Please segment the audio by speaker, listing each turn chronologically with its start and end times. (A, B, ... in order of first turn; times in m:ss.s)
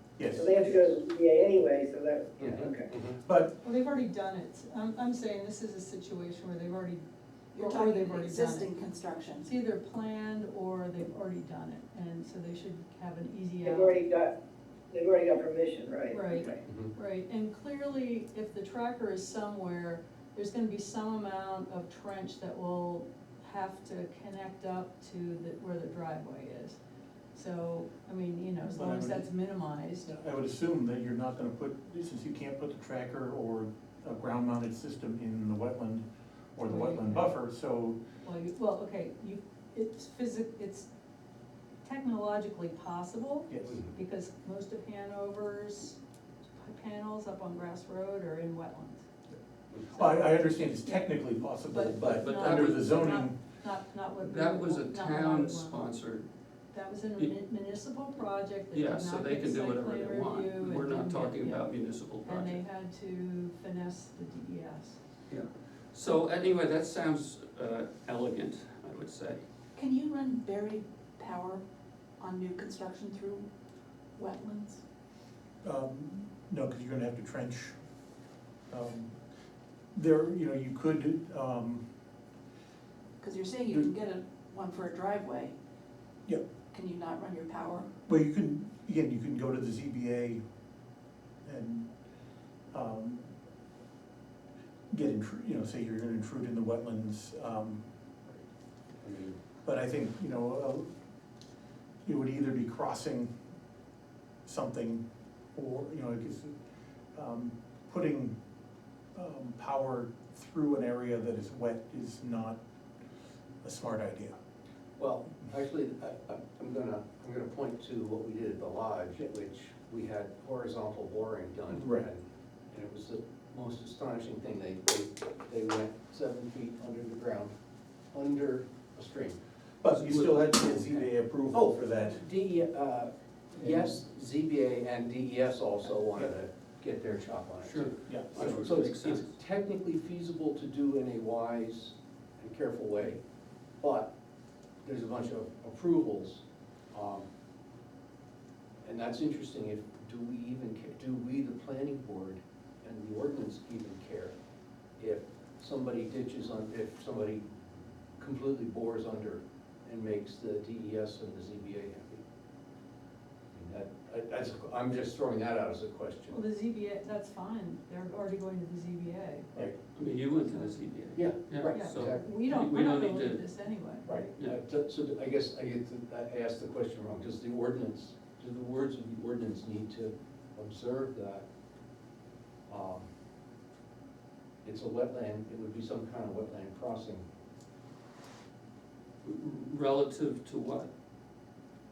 0:00.2-0:00.7 A
0:00.3-0:02.9 B
0:02.4-0:03.2 C
0:03.2-0:03.6 A
0:03.6-0:07.0 D
0:07.5-0:09.5 E
0:07.6-0:08.7 D
0:09.4-0:14.0 D
0:13.6-0:14.3 B
0:14.9-0:16.6 B
0:16.1-0:26.8 D
0:27.3-0:30.1 D
0:28.6-0:29.3 A
0:30.0-0:38.0 A
0:36.6-0:37.3 D
0:38.2-0:40.9 D
0:41.8-0:46.0 D
0:43.5-0:43.8 A
0:46.6-0:49.0 D
0:49.9-0:53.4 A
0:50.0-0:51.1 D
0:51.7-0:55.8 D
0:52.1-0:52.8 F
0:54.2-0:56.3 F
0:56.7-1:05.0 D
0:58.7-1:02.6 F
1:05.3-1:09.4 F
1:09.8-1:11.6 E
1:12.2-1:13.5 E
1:14.2-1:14.8 E
1:15.6-1:17.7 A
1:18.7-1:19.1 A
1:19.9-1:21.8 A
1:23.2-1:25.5 E
1:26.7-1:27.9 E
1:28.0-1:30.4 A
1:31.4-1:31.9 A
1:32.7-1:33.2 A
1:34.9-1:37.8 A
1:39.0-1:39.3 C
1:39.6-1:40.9 A
1:42.0-1:43.3 A
1:44.4-1:45.0 A
1:45.5-1:46.5 A
1:47.1-1:48.4 A
1:49.1-1:52.6 A
1:53.6-1:54.3 A
1:55.0-2:07.5 C
2:01.7-2:02.1 A
2:08.1-2:09.4 C
2:09.8-2:12.2 A
2:09.9-2:11.0 F
2:11.5-2:23.2 C
2:13.6-2:13.9 A
2:17.6-2:19.4 F
2:18.0-2:18.8 A
2:23.8-2:24.1 C
2:24.8-2:27.2 C
2:28.8-2:34.3 C
2:35.0-2:37.4 C
2:38.2-2:42.2 C
2:43.5-2:46.4 C
2:46.3-2:49.5 D
2:49.9-2:53.4 F
2:51.2-2:52.2 C
2:51.7-2:54.1 D
2:54.1-3:01.4 C
3:02.7-3:03.0 C
3:04.6-3:07.2 C
3:09.2-3:10.9 F